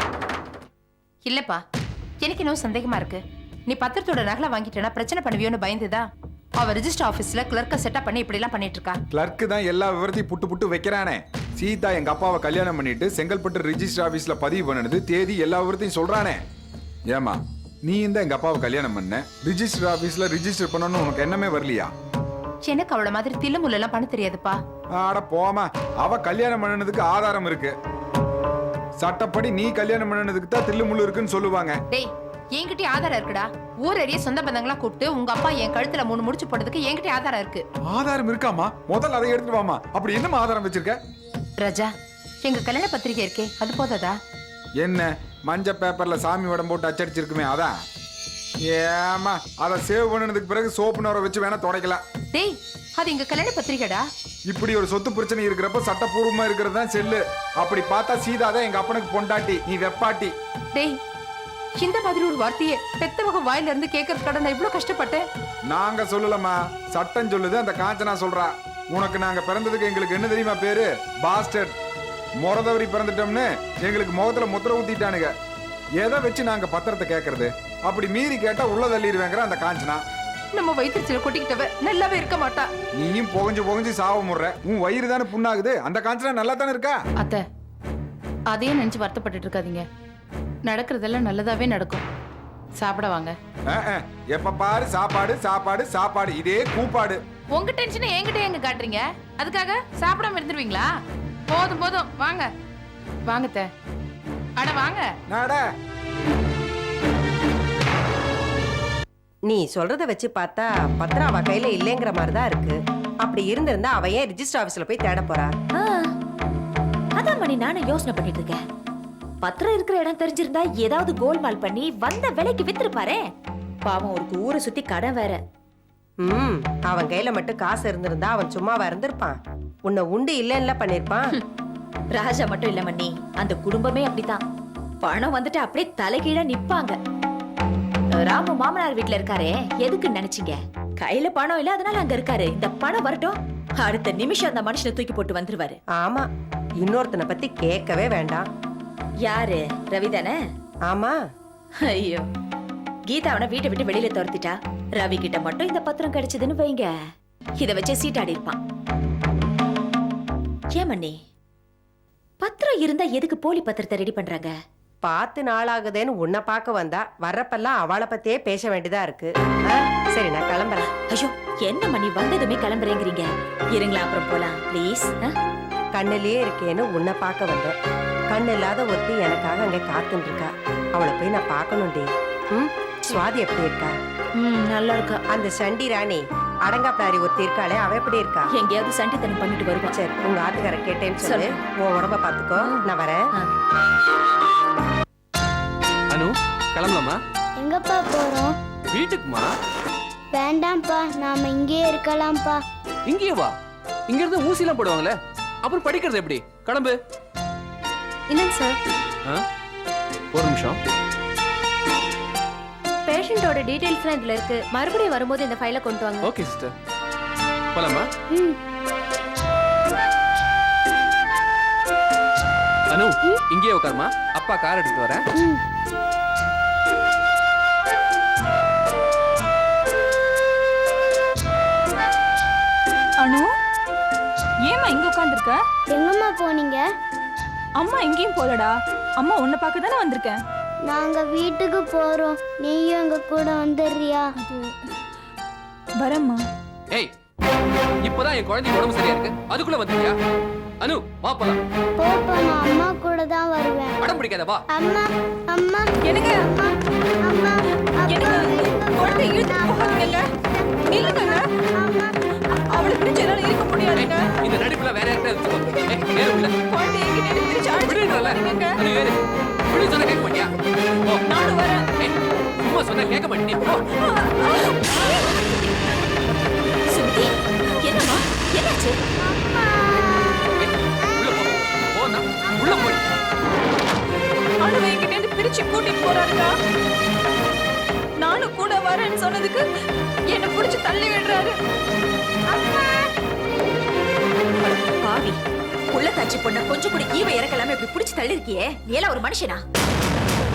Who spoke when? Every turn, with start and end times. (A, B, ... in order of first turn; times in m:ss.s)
0:01.2-0:01.6 A
0:02.2-0:06.0 A
0:06.6-0:09.0 A
0:09.1-0:16.4 B
0:17.1-0:21.9 B
0:22.6-0:24.6 A
0:25.0-0:27.7 B
0:29.0-0:31.8 B
0:31.9-0:37.6 A
0:37.9-0:41.0 B
0:41.6-0:41.9 A
0:42.4-0:44.2 A
0:44.8-0:47.7 B
0:48.6-0:52.0 B
0:52.3-0:54.0 A
0:54.5-1:00.3 B
1:01.8-1:05.2 A
1:05.7-1:11.7 B
1:12.4-1:15.3 B
1:16.0-1:20.0 B
1:20.5-1:22.6 A
1:22.9-1:27.0 B
1:28.5-1:29.8 A
1:30.7-1:32.0 A
1:32.8-1:33.3 A
1:33.7-1:37.2 B
1:37.6-1:40.8 A
1:41.5-1:42.4 A
1:43.3-1:43.6 A
1:44.6-1:45.0 A
1:45.3-1:45.6 B
1:49.4-1:55.5 C
1:55.7-1:56.1 D
1:57.2-1:58.6 D
1:59.4-2:03.2 D
2:03.8-2:05.4 D
2:06.2-2:11.4 C
2:12.2-2:14.4 D
2:15.0-2:17.0 D
2:18.2-2:25.8 D
2:26.0-2:26.3 C
2:26.8-2:28.5 C
2:29.2-2:30.4 D
2:30.9-2:31.2 C
2:31.8-2:32.3 D
2:33.1-2:36.9 D
2:37.6-2:38.6 D
2:40.7-2:41.1 D
2:42.4-2:44.5 D
2:45.0-2:50.9 C
2:51.1-2:55.3 D
2:56.0-2:57.7 C
2:58.3-3:03.9 C
3:05.3-3:08.4 C
3:08.5-3:09.9 D
3:09.9-3:13.2 C
3:11.2-3:11.5 D
3:12.6-3:12.8 D
3:16.1-3:17.2 E
3:17.6-3:18.5 F
3:18.9-3:19.5 E
3:20.4-3:22.6 F
3:23.1-3:23.5 E
3:24.1-3:25.1 E
3:25.6-3:26.9 E
3:30.3-3:30.8 E
3:36.2-3:36.7 E
3:37.7-3:38.0 E
3:42.9-3:45.2 E
3:53.2-3:53.5 G
3:54.6-3:55.6 G
3:55.9-3:56.9 F
3:57.8-4:00.4 G
4:00.8-4:04.3 F
4:06.0-4:06.4 G
4:08.0-4:10.1 E
4:10.8-4:11.6 E
4:12.0-4:14.0 F
4:14.0-4:14.6 E
4:14.8-4:15.9 F
4:16.0-4:16.6 G
4:16.4-4:16.7 F
4:17.2-4:20.2 F
4:18.0-4:20.3 G
4:20.8-4:21.4 G
4:20.9-4:22.1 F
4:22.6-4:24.3 G
4:23.9-4:26.6 E
4:26.4-4:28.8 G
4:27.8-4:29.2 E
4:29.7-4:31.2 E
4:31.2-4:31.9 G
4:31.9-4:33.9 E
4:34.0-4:35.5 G
4:36.9-4:39.0 D
4:40.6-4:43.0 E
4:44.6-4:46.5 G
4:48.2-4:49.6 G
4:50.3-4:51.6 G
4:54.6-4:55.4 D
4:55.9-4:59.6 D